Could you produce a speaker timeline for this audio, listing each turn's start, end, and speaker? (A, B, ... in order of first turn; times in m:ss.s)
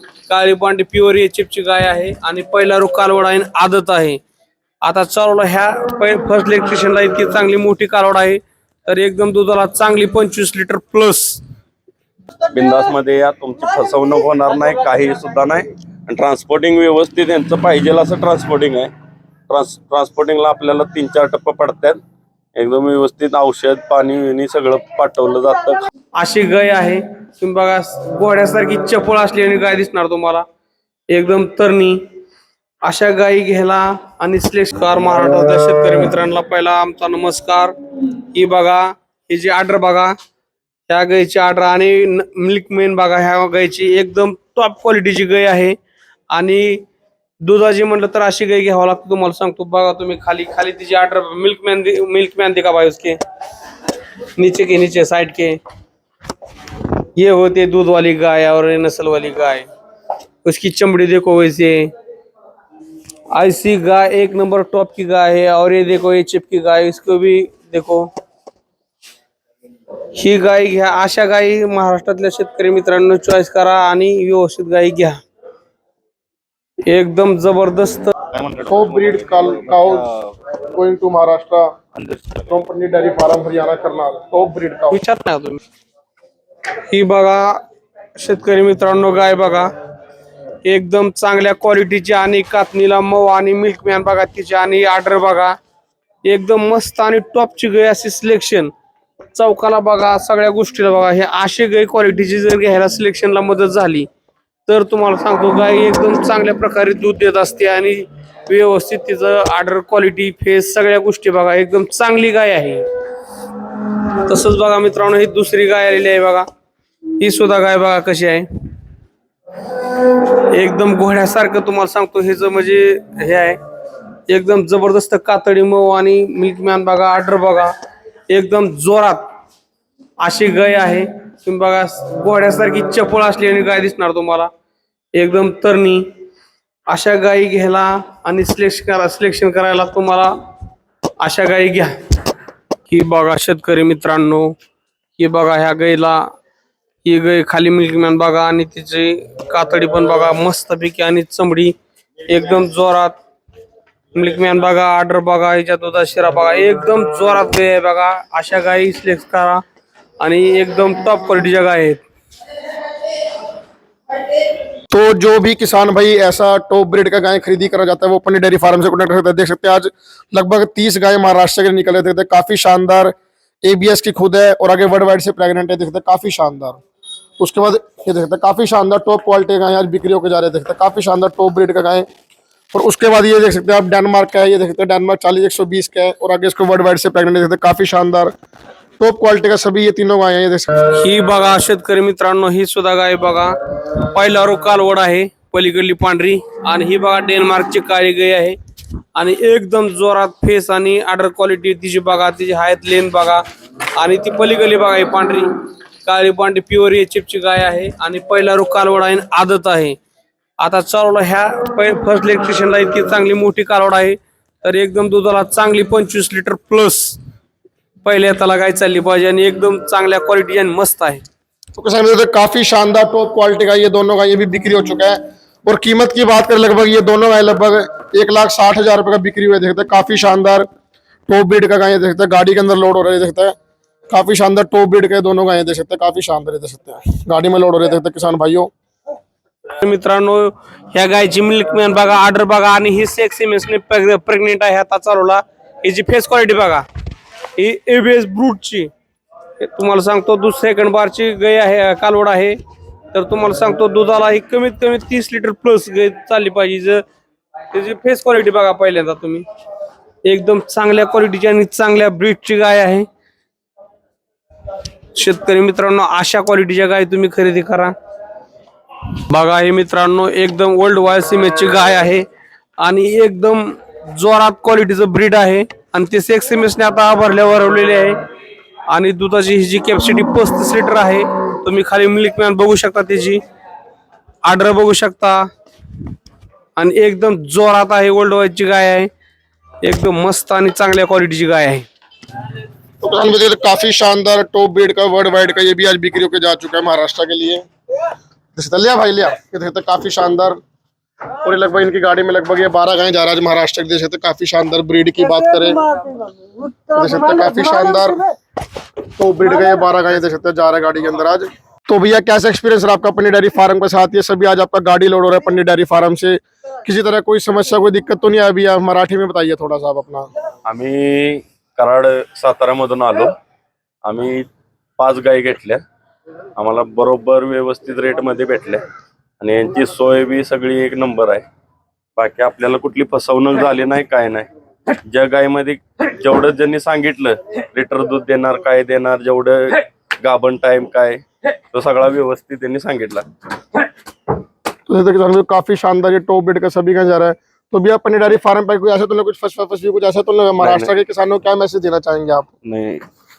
0:00.3-0:04.2 A
0:04.8-0:11.4 A
0:12.5-0:18.9 B
0:19.5-0:22.0 B
0:22.6-0:25.9 B
0:26.2-0:30.4 A
0:31.1-0:32.0 A
0:32.8-0:40.2 A
0:40.9-0:45.8 A
0:46.3-0:46.9 A
0:47.4-0:53.2 A
0:54.4-0:55.6 A
0:57.2-0:59.7 A
1:00.4-1:01.9 A
1:03.3-1:08.1 A
1:10.2-1:15.2 A
1:16.9-1:18.1 A
1:18.3-1:19.1 B
1:18.7-1:20.1 C
1:20.7-1:21.8 C
1:22.5-1:25.0 C
1:24.9-1:25.6 A
1:26.9-1:27.6 A
1:28.2-1:29.7 A
1:30.6-1:35.6 A
1:36.2-1:38.7 A
1:39.3-1:44.1 A
1:44.7-1:52.8 A
1:54.2-1:56.5 A
1:57.2-1:58.5 A
2:00.5-2:03.6 A
2:04.3-2:07.7 A
2:08.3-2:09.3 A
2:10.2-2:14.5 A
2:15.2-2:16.1 A
2:16.9-2:20.3 A
2:21.2-2:22.0 A
2:22.9-2:24.6 A
2:25.2-2:26.3 A
2:27.0-2:31.8 A
2:32.3-2:33.2 A
2:34.1-2:39.6 A
2:40.2-2:42.0 A
2:44.9-2:56.8 C
2:57.4-3:02.1 C
3:02.7-3:08.3 C
3:09.0-3:10.7 C
3:11.0-3:13.6 A
3:14.1-3:18.6 A
3:19.2-3:23.4 A
3:24.0-3:25.5 A
3:26.0-3:30.0 A
3:30.6-3:37.2 A
3:38.0-3:41.2 A
3:41.8-3:50.7 C
3:51.3-3:53.6 C
3:54.1-3:58.7 C
3:59.7-4:06.8 A
4:07.6-4:08.9 A
4:09.6-4:12.6 A
4:13.1-4:17.0 A
4:17.7-4:19.4 A
4:20.2-4:23.1 A
4:25.2-4:28.0 A
4:29.3-4:32.3 A
4:32.8-4:38.2 A
4:38.9-4:43.4 A
4:44.4-4:45.5 A
4:46.8-4:49.1 A
4:49.8-4:51.9 A
4:53.0-4:57.7 C
4:58.6-5:00.6 C
5:01.4-5:05.9 C
5:06.9-5:08.3 C
5:09.2-5:20.3 C
5:20.7-5:23.4 B
5:24.0-5:25.8 B
5:26.6-5:28.8 B
5:29.4-5:31.5 B
5:32.2-5:34.5 B
5:35.0-5:43.3 B
5:44.9-5:52.5 C
5:50.6-5:50.9 B
5:52.6-5:53.0 B